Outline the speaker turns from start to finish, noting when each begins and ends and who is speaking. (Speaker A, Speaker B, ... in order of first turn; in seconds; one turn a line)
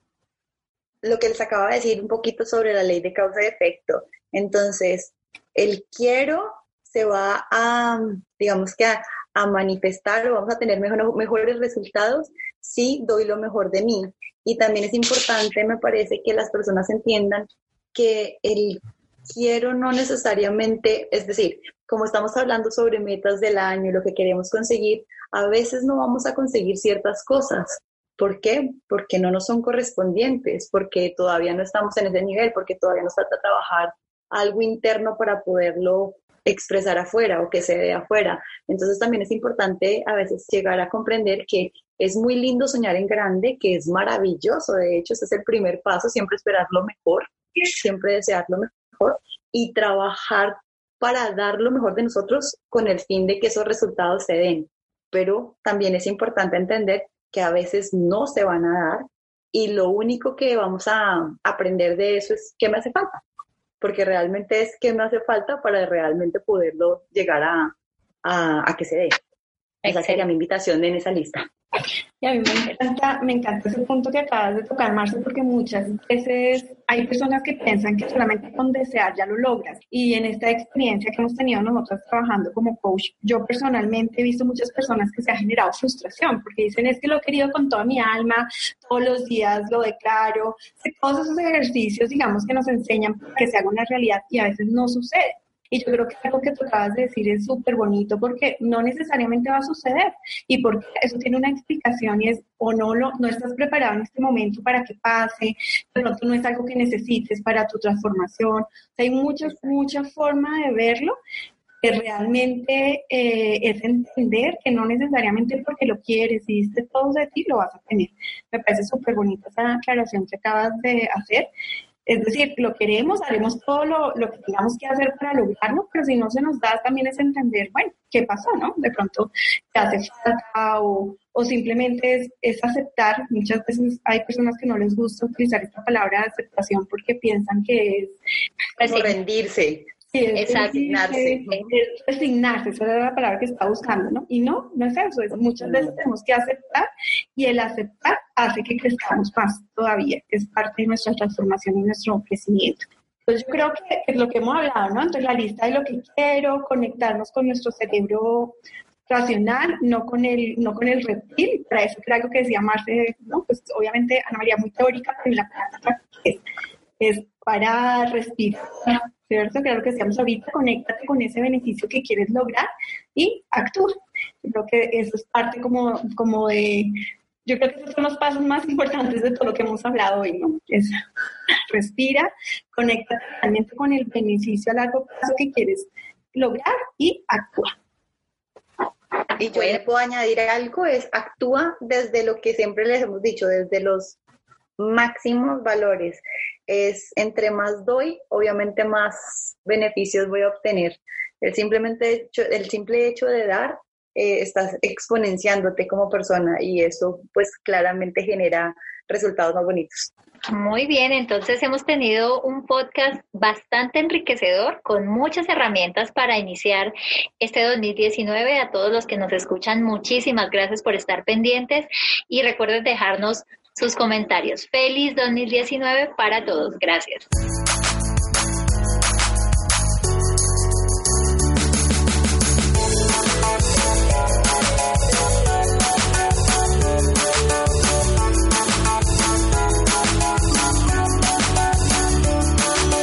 Speaker A: 1.0-63.2
Speaker A: 63.8-67.7
Speaker A: 68.2-69.2
Speaker A: 69.8-71.5
Speaker B: 72.2-111.2
Speaker A: 109.4-109.8
Speaker B: 111.8-121.5
Speaker B: 122.0-138.2
Speaker B: 138.7-139.1
Speaker A: 138.8-139.9
Speaker B: 140.1-158.6
Speaker C: 140.3-140.8
Speaker A: 140.6-141.6
Speaker B: 159.1-166.4
Speaker B: 167.0-176.9
Speaker B: 177.4-181.0
Speaker B: 181.7-187.7
Speaker A: 189.4-194.2
Speaker A: 194.8-210.1
Speaker C: 210.5-227.3